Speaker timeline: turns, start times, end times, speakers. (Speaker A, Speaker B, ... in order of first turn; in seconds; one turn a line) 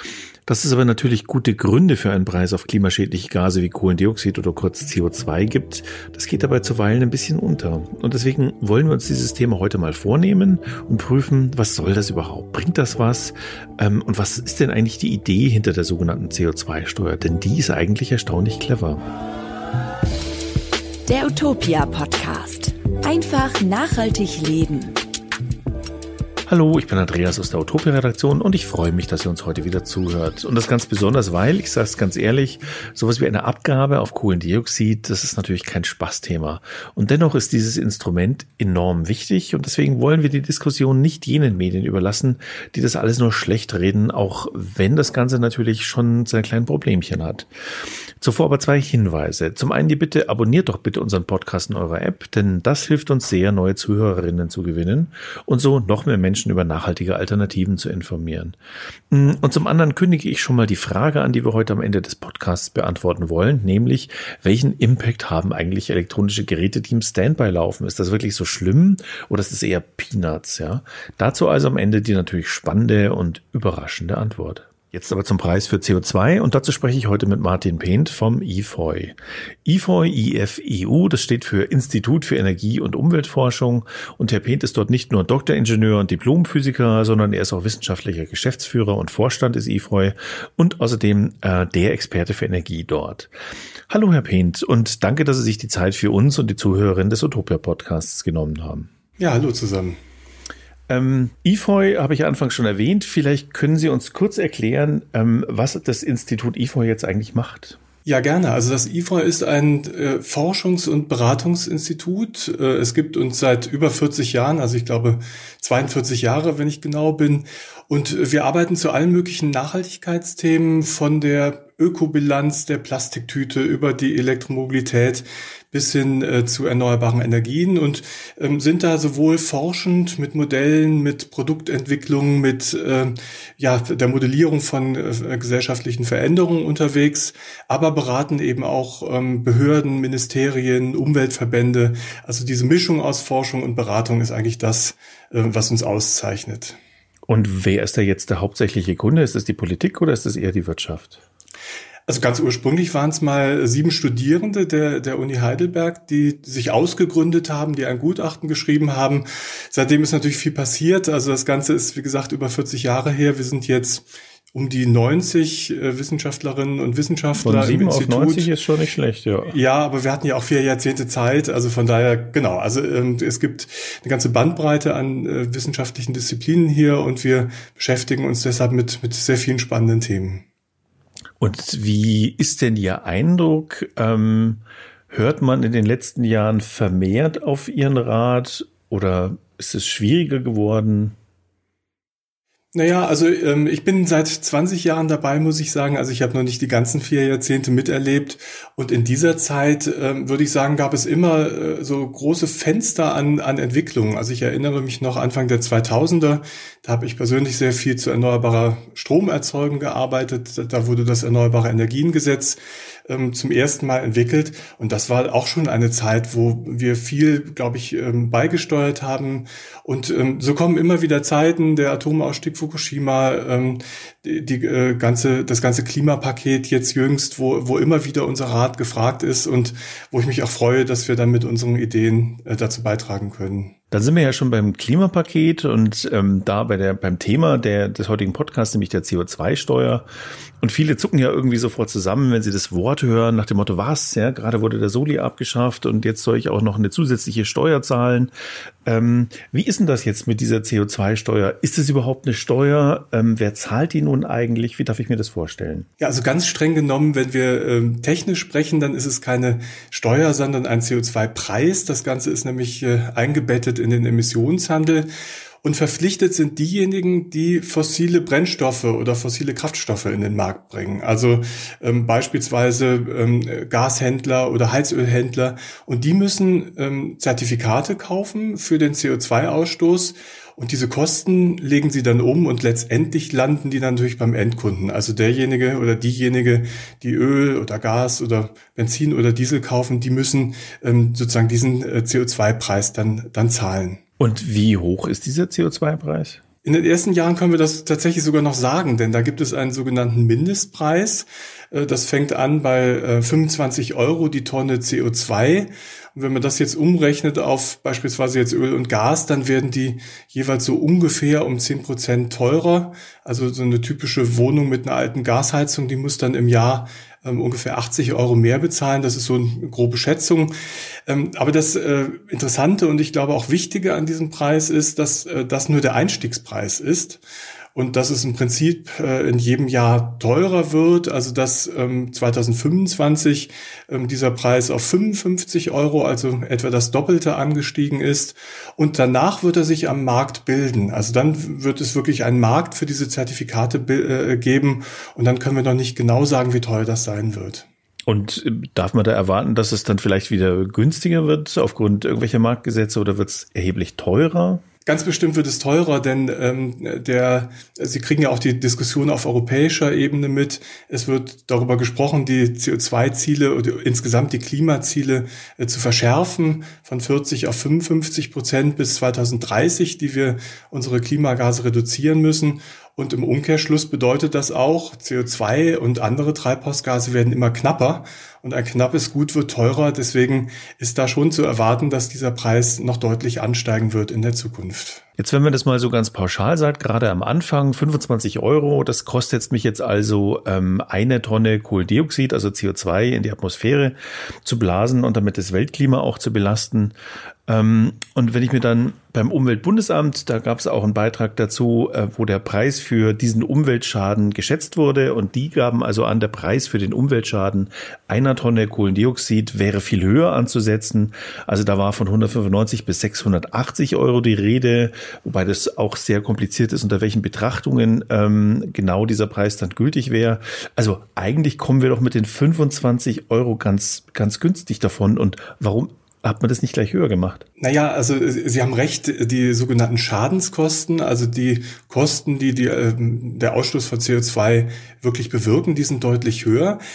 Speaker A: 0.5-19.0
Speaker B: 21.1-25.0
Speaker A: 26.5-47.5
Speaker A: 48.2-58.5
Speaker A: 59.1-93.3
Speaker A: 93.9-98.9
Speaker C: 99.2-100.0
Speaker A: 100.9-107.8
Speaker C: 108.0-146.8
Speaker A: 147.3-151.2
Speaker C: 152.1-168.5
Speaker A: 167.3-169.6
Speaker C: 169.4-180.4
Speaker A: 181.4-191.2
Speaker C: 192.7-233.7
Speaker A: 233.9-240.1
Speaker A: 240.6-248.3
Speaker A: 248.8-255.9
Speaker C: 256.0-265.1
Speaker C: 265.6-294.0
Speaker A: 294.2-296.4
Speaker C: 296.6-320.5
Speaker C: 321.1-327.2
Speaker C: 327.7-347.6
Speaker A: 348.1-354.6
Speaker C: 354.9-385.0
Speaker A: 385.2-396.9
Speaker A: 397.5-427.4
Speaker C: 427.6-436.8